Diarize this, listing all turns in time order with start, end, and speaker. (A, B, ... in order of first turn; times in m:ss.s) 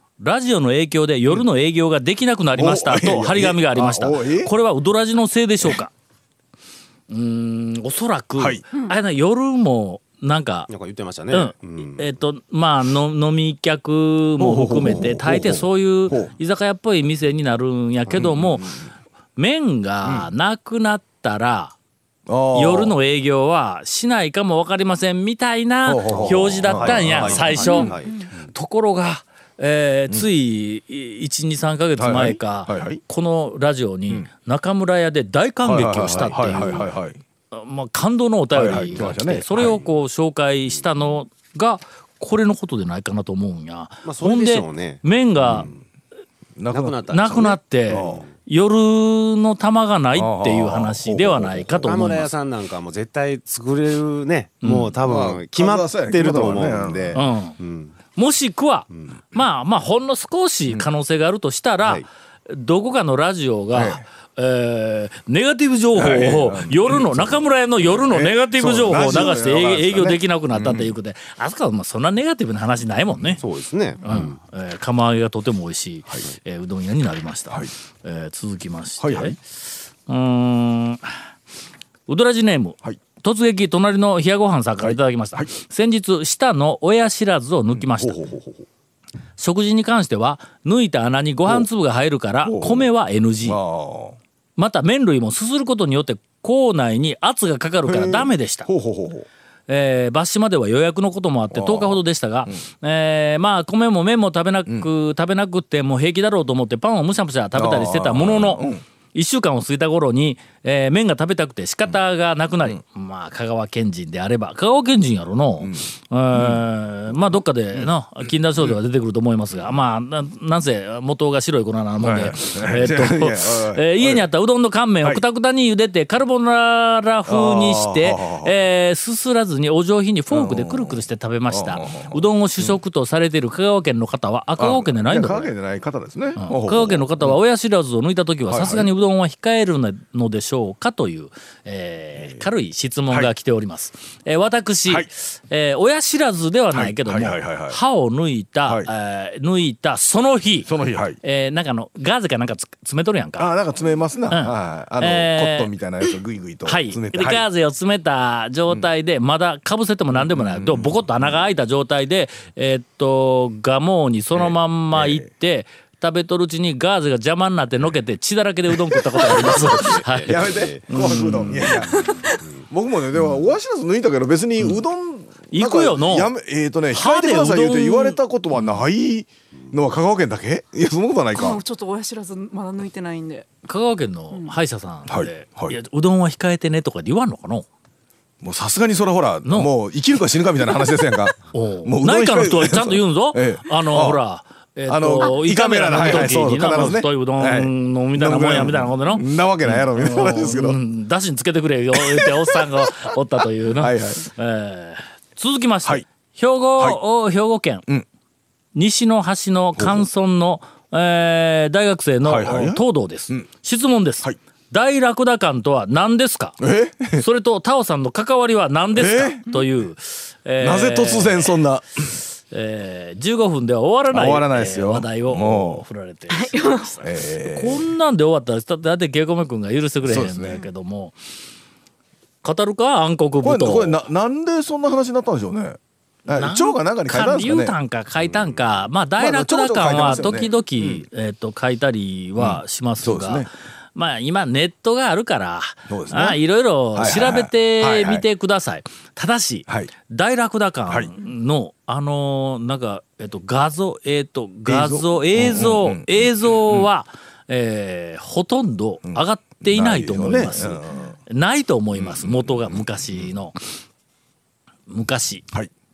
0:00.2-0:05.9 A
0:02.5-0:04.5 B
0:07.1-0:10.7 A
0:08.4-0:08.6 B
0:10.7-0:12.1 C
0:11.3-0:18.7 A
0:14.4-0:16.3 B
0:18.1-0:18.9 B
0:19.4-0:21.7 A
0:20.0-0:20.3 B
0:22.3-0:23.0 B
0:22.5-0:28.0 A
0:25.8-0:28.0 B
0:26.1-0:28.2 C
0:28.5-0:37.0 A
0:32.0-0:33.0 B
0:35.6-0:37.2 B
0:37.5-0:45.7 A
0:38.5-0:39.8 B
0:44.0-0:45.8 C
0:45.4-0:45.7 B
0:46.6-0:48.2 B
0:46.7-0:48.3 C
0:47.1-0:52.3 A
0:50.1-0:51.9 B
0:51.8-0:57.9 C
0:54.6-0:55.0 A
0:55.0-0:57.2 B
0:57.1-0:57.6 A
0:58.1-1:13.4 A
1:03.7-1:04.0 B
1:05.9-1:11.0 B
1:13.4-1:14.4 C
1:14.0-1:19.4 A
1:19.0-1:19.4 B
1:20.1-1:21.2 A
1:22.1-1:28.3 A
1:24.8-1:25.5 B
1:27.7-1:28.6 B
1:29.4-1:33.6 A
1:32.4-1:32.9 B
1:33.4-1:34.2 B
1:34.6-1:38.7 A
1:37.9-1:39.3 B
1:39.7-2:15.5 A
1:41.5-1:42.6 B
1:47.5-1:48.8 B
1:55.6-1:57.9 B
2:02.0-2:04.3 B
2:07.3-2:08.5 B
2:10.3-2:12.8 B
2:14.6-2:17.4 B
2:16.4-2:30.7 A
2:18.5-2:18.9 B
2:22.2-2:22.5 B
2:26.7-2:27.8 B
2:28.6-2:28.9 B
2:30.6-2:31.2 B
2:31.2-2:33.5 A
2:33.4-2:37.5 B
2:34.3-2:35.7 A
2:36.6-2:51.7 A
2:40.1-2:41.4 B
2:44.3-2:45.3 B
2:49.1-2:51.8 C
2:50.2-2:52.1 B
2:52.1-2:52.4 D
2:52.6-3:01.6 B
2:55.5-2:56.3 A
2:56.9-2:58.2 A
3:01.3-3:03.5 D
3:03.6-3:07.7 A
3:05.1-3:05.8 B
3:08.4-3:14.2 B
3:09.4-3:09.7 A
3:11.5-3:27.9 A
3:14.9-3:20.8 B
3:21.9-3:23.1 B
3:23.8-3:24.2 B
3:28.7-3:36.6 A
3:29.8-3:30.0 B
3:32.2-3:33.5 B
3:36.6-3:37.2 B
3:37.1-3:41.6 A
3:38.9-3:39.6 B
3:40.6-3:42.2 B
3:42.5-3:51.2 A
3:44.1-3:45.8 B
3:46.4-3:46.9 D
3:47.0-3:47.9 B
3:50.0-3:50.6 B
3:52.4-3:54.0 A
3:53.4-4:01.0 B
3:56.3-4:23.6 A
4:02.4-4:03.5 B
4:05.9-4:06.4 B
4:07.0-4:08.2 B
4:10.9-4:11.1 B
4:14.7-4:16.9 B
4:19.0-4:21.2 B
4:22.0-4:23.3 B
4:24.9-4:25.4 A